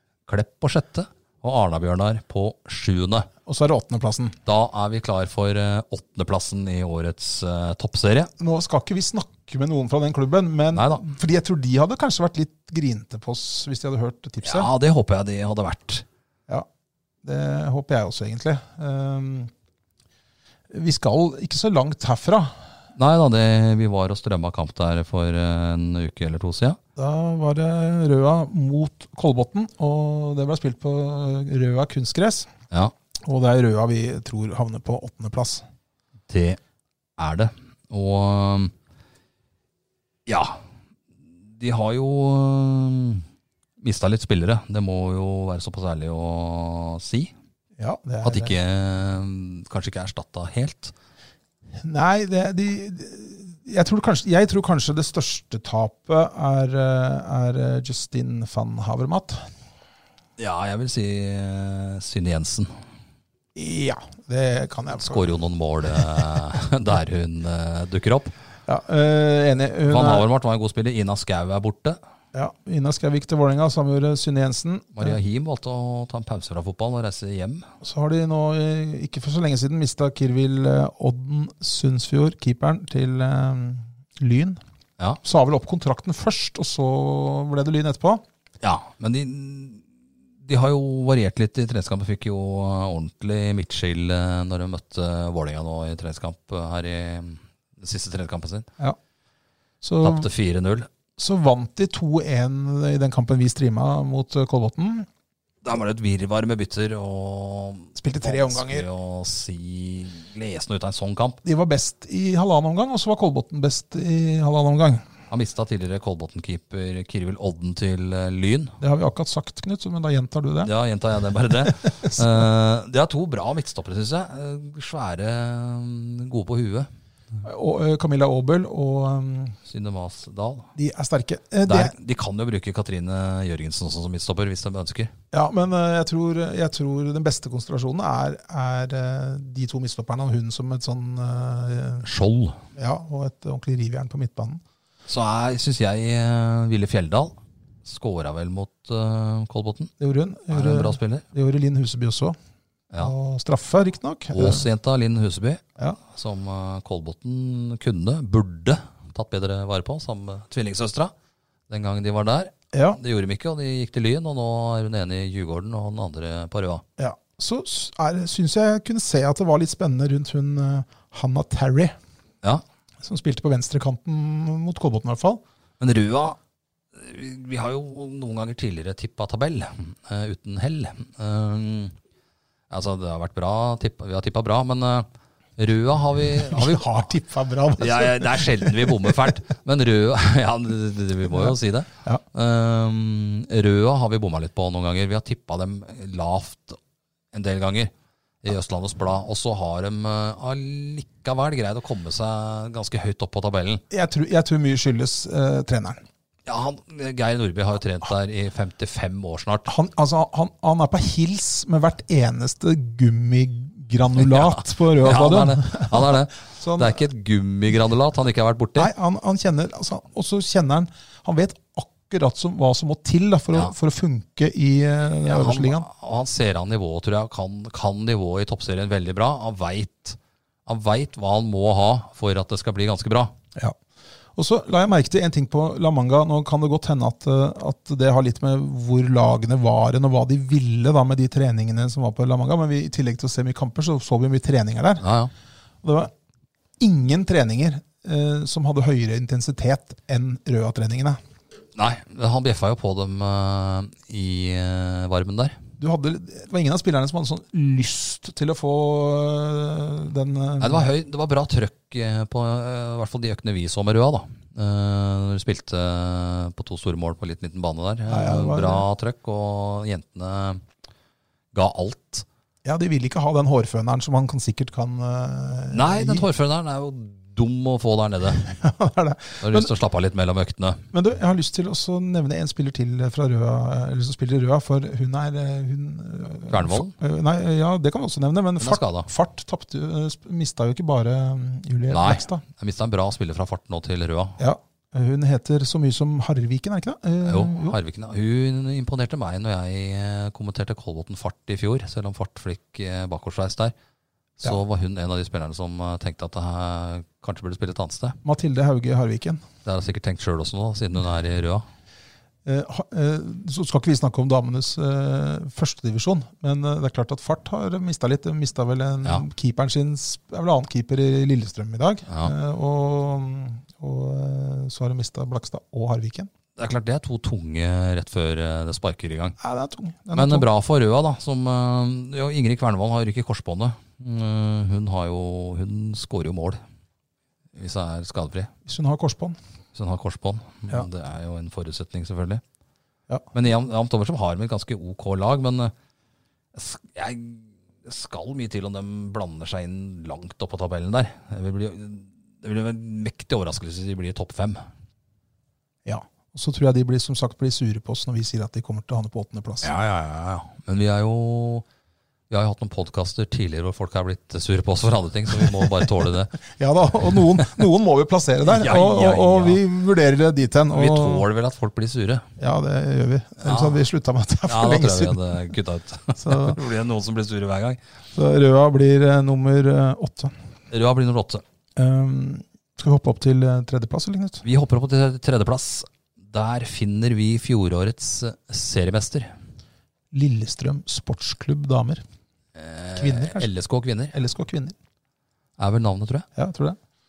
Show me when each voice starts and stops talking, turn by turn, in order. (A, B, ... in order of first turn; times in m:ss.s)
0:00.3-0:03.3 A
0:03.4-0:04.3 B
0:04.4-0:08.3 A
0:08.4-0:14.7 B
0:10.7-0:11.0 A
0:14.4-0:16.0 A
0:17.2-0:19.5 B
0:20.7-0:22.6 B
0:23.0-0:26.8 A
0:27.0-0:32.5 B
0:33.2-0:35.6 B
0:36.3-0:36.6 A
0:37.2-0:38.7 A
0:40.3-0:40.6 A
0:41.6-0:43.2 A
0:43.8-0:47.3 A
0:47.8-0:48.5 B
0:48.2-0:50.9 A
0:51.8-0:59.5 B
1:00.4-1:02.7 A
1:03.5-1:05.3 B
1:04.9-1:08.3 A
1:08.7-1:10.2 B
1:09.9-1:12.0 A
1:12.3-1:15.2 B
1:14.9-1:17.7 A
1:17.8-1:24.6 B
1:25.2-1:28.2 B
1:28.6-1:29.8 A
1:30.4-1:38.7 A
1:39.8-1:40.3 B
1:40.0-1:40.9 A
1:41.2-1:45.1 B
1:45.6-1:51.4 A
1:48.0-1:48.8 B
1:51.4-1:55.0 B
1:55.3-1:58.8 A
1:58.8-2:00.7 B
2:00.6-2:06.9 A
2:01.6-2:02.4 B
2:07.4-2:09.6 B
2:09.7-2:10.7 A
2:10.8-2:11.9 B
2:11.6-2:15.1 A
2:15.3-2:22.0 B
2:22.0-2:22.6 A
2:22.8-2:24.6 B
2:25.1-2:29.9 A
2:30.0-2:32.4 B
2:30.5-2:31.2 A
2:33.0-2:34.6 B
2:34.3-2:41.1 A
2:41.7-2:46.8 A
2:42.7-2:43.0 B
2:47.0-2:52.0 B
2:53.0-2:55.4 B
2:55.8-2:56.4 A
2:56.9-3:01.9 A
3:02.7-3:06.8 A
3:06.4-3:09.3 B
3:07.8-3:16.8 A
3:11.3-3:12.2 B
3:17.3-3:17.9 A
3:18.4-3:23.8 A
3:23.9-3:26.0 B
3:26.4-3:29.7 A
3:29.7-3:37.0 B
3:34.2-3:38.9 A
3:38.8-3:45.9 B
3:45.2-3:53.3 A
3:54.4-4:05.0 B
4:05.0-4:05.3 A
4:05.8-4:06.1 B
4:06.8-4:11.2 B
4:11.8-4:15.6 A
4:15.8-4:20.9 B
4:20.6-4:30.6 A
4:28.1-4:28.8 B
4:31.5-4:32.2 A
4:32.6-4:36.3 B
4:35.7-4:38.5 A
4:38.4-4:39.7 B
4:39.4-4:40.8 A
4:40.9-4:52.4 B
4:46.5-4:47.0 A
4:48.6-4:49.1 A
4:51.9-4:54.4 A
4:54.4-4:57.8 B
4:57.2-5:03.7 A
5:04.4-5:08.2 A
5:08.2-5:09.4 B
5:09.6-5:11.6 A
5:12.4-5:26.3 B
5:22.1-5:22.3 A
5:26.6-5:29.4 A
5:29.4-5:30.5 B
5:30.1-5:36.6 A
5:37.5-5:38.5 A
5:38.6-5:39.4 B
5:39.7-5:42.4 A
5:43.3-5:45.7 A
5:46.5-5:54.6 A
5:55.8-5:59.7 B
5:59.6-6:01.6 A
6:02.3-6:06.4 A
6:06.5-6:11.2 B
6:08.4-6:09.6 A
6:10.7-6:12.3 A
6:12.4-6:15.3 B
6:13.4-6:13.8 A
6:14.5-6:17.8 A
6:16.2-6:16.6 B
6:18.1-6:20.3 B
6:20.7-6:21.4 A
6:21.8-6:24.4 B
6:24.4-6:29.3 A
6:30.1-6:32.0 B
6:32.5-6:34.2 A
6:33.0-6:33.5 B
6:34.1-6:34.7 B
6:35.6-6:36.3 A
6:36.4-6:36.8 B